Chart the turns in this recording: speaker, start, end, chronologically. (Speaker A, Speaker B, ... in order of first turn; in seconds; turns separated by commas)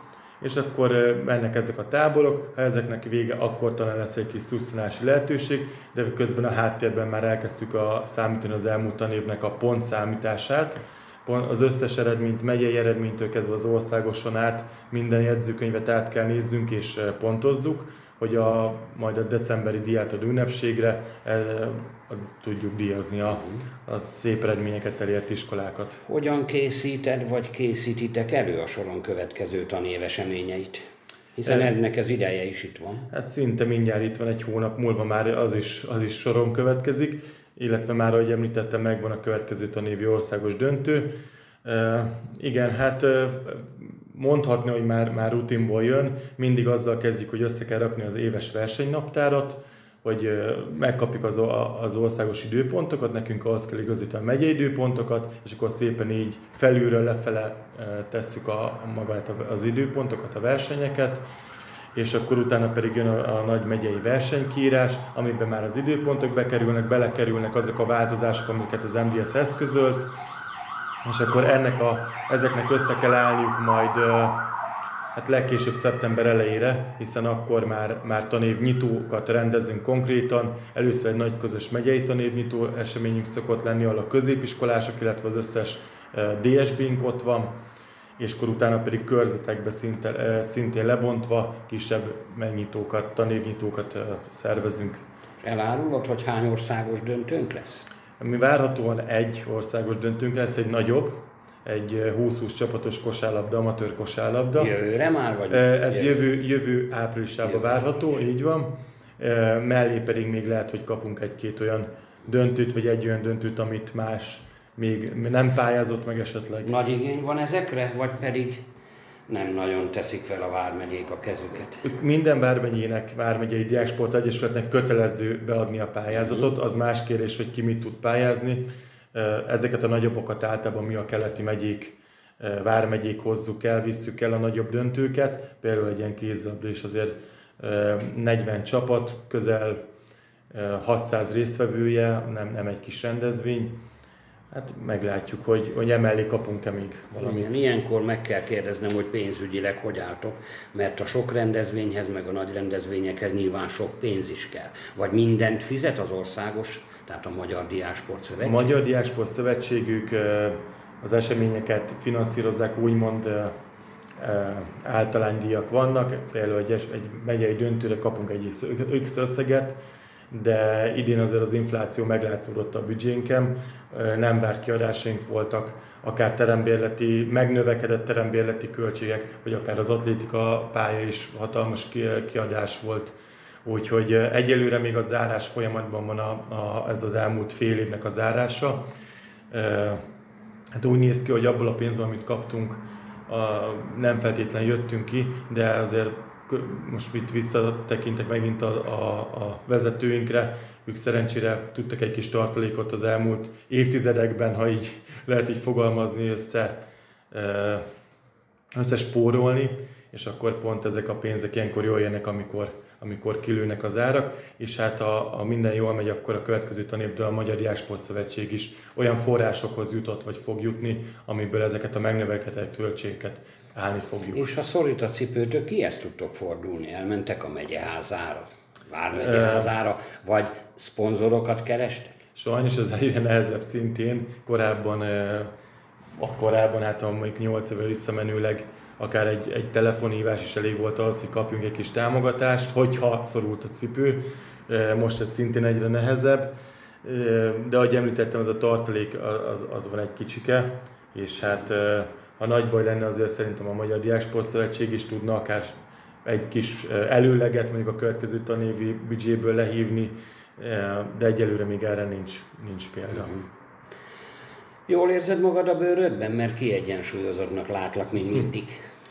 Speaker A: 0.4-26.0, Speaker B: 23.2-23.7, Speaker B: 26.0-30.8, Speaker B: 31.4-33.1, Speaker A: 31.4-31.7, Speaker A: 33.1-41.1, Speaker A: 41.6-61.2, Speaker A: 61.9-70.1, Speaker A: 71.0-74.4, Speaker A: 75.1-87.5, Speaker A: 88.2-95.0, Speaker B: 95.4-97.9, Speaker A: 98.2-104.7, Speaker B: 104.5-106.2, Speaker A: 105.5-116.7, Speaker B: 107.4-108.1, Speaker B: 116.6-118.6, Speaker B: 119.3-121.8, Speaker A: 121.8-139.8, Speaker B: 126.1-126.5, Speaker A: 140.5-143.7, Speaker A: 144.5-147.6, Speaker B: 147.2-158.7, Speaker A: 158.4-163.5, Speaker A: 164.2-169.8, Speaker A: 170.3-188.8, Speaker A: 189.5-190.0, Speaker A: 190.7-206.7, Speaker A: 207.3-207.8, Speaker A: 208.7-224.5, Speaker B: 224.3-232.2, Speaker A: 229.1-229.7, Speaker A: 232.3-235.5, Speaker A: 236.2-246.5, Speaker A: 247.0-255.7, Speaker A: 256.2-263.4, Speaker B: 264.9-268.8